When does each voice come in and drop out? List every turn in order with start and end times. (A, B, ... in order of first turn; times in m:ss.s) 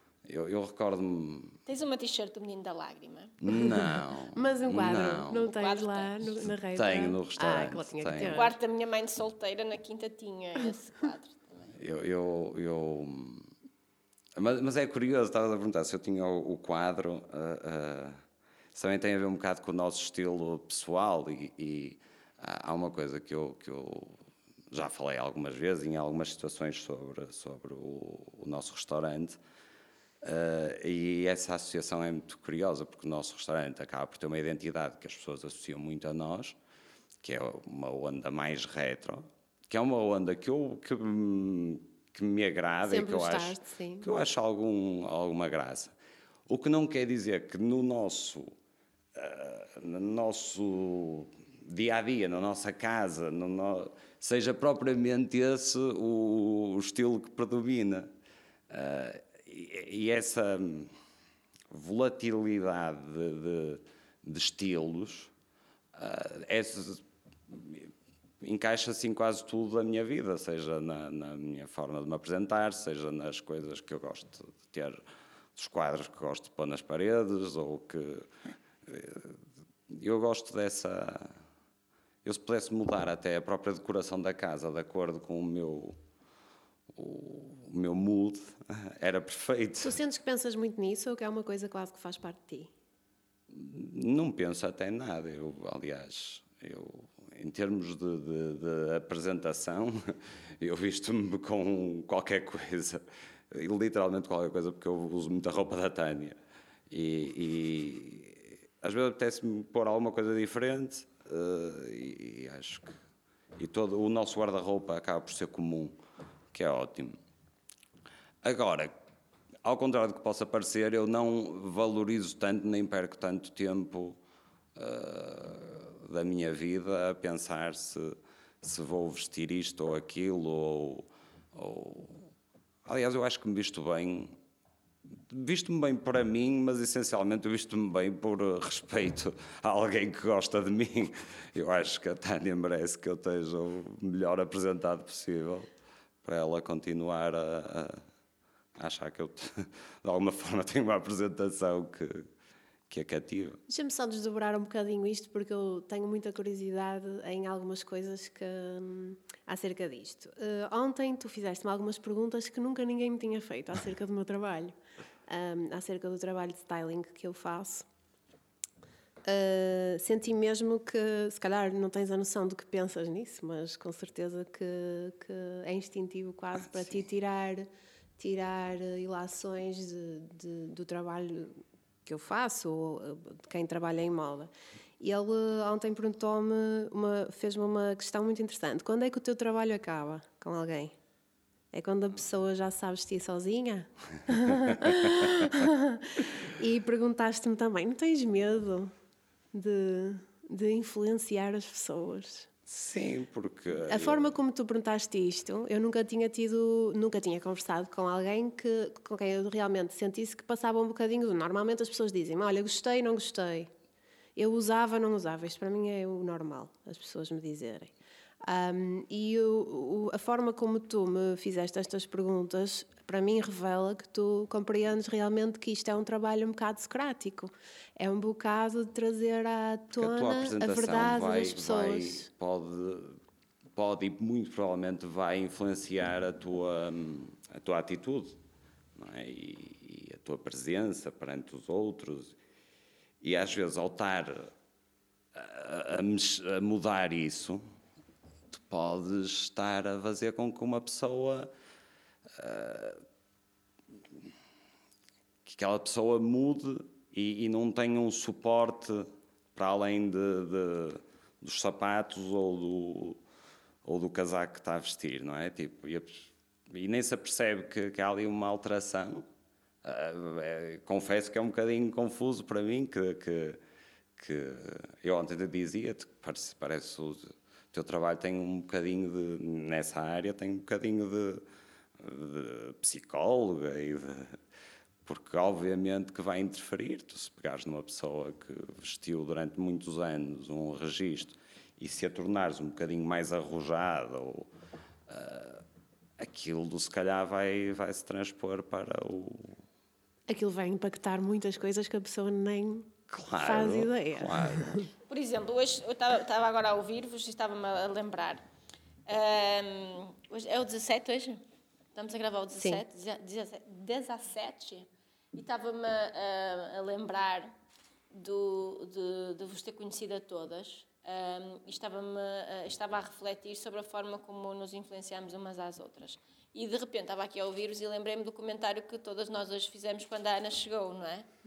0:00.3-0:01.6 A
0:01.7-0:03.4 B
0:03.4-0:05.5 A
0:04.3-0:08.5 C
0:05.5-0:06.1 B
0:06.7-0:08.4 A
0:08.3-0:11.7 B
0:11.8-0:13.5 A
0:14.4-0:18.2 A
0:18.7-0:24.2 A
0:24.7-0:29.4 A
0:30.2-0:36.6 A
0:37.2-0:45.9 A
0:42.9-0:44.2 C
0:46.5-0:48.5 A
0:49.1-0:58.1 A
0:58.7-1:00.9 A
1:01.7-1:05.3 A
1:06.0-1:15.0 A
1:15.6-1:18.3 A
1:18.8-1:19.4 A
1:19.9-1:21.3 A
1:22.2-1:26.0 A
1:26.9-1:30.0 A
1:29.8-1:32.7 C
1:33.5-1:46.4 A
1:46.9-1:52.9 A
1:53.6-1:56.0 A
1:56.5-1:57.2 A
1:58.4-1:58.9 A
1:59.6-2:04.2 A
2:04.8-2:12.3 A
2:12.8-2:14.4 A
2:15.3-2:25.7 A
2:26.2-2:28.0 A
2:28.8-2:32.3 A
2:32.9-2:33.6 A
2:33.7-2:44.8 C
2:45.3-2:47.9 C
2:49.2-2:57.7 C
2:58.2-3:10.9 C
3:11.7-3:18.9 C
3:19.5-3:22.5 C
3:22.7-3:24.3 A
3:23.9-3:33.7 C
3:34.4-3:37.9 C
3:38.4-3:52.3 C
3:50.0-3:53.2 A
3:53.8-3:58.4 A
3:59.0-4:02.4 A
4:03.2-4:04.5 A
4:05.3-4:07.6 A
4:08.5-4:11.5 A
4:12.3-4:13.0 A
4:15.5-4:23.2 A
4:23.8-4:29.2 A
4:29.8-4:33.6 A
4:34.2-4:41.4 A
4:42.0-4:44.4 A
4:45.0-4:54.5 A
4:55.1-4:55.6 A
4:56.2-4:59.6 A
5:00.3-5:04.9 C
5:03.1-5:04.9 A
5:05.1-5:08.4 B
5:09.1-5:11.4 B
5:12.0-5:17.5 B
5:18.1-5:31.3 B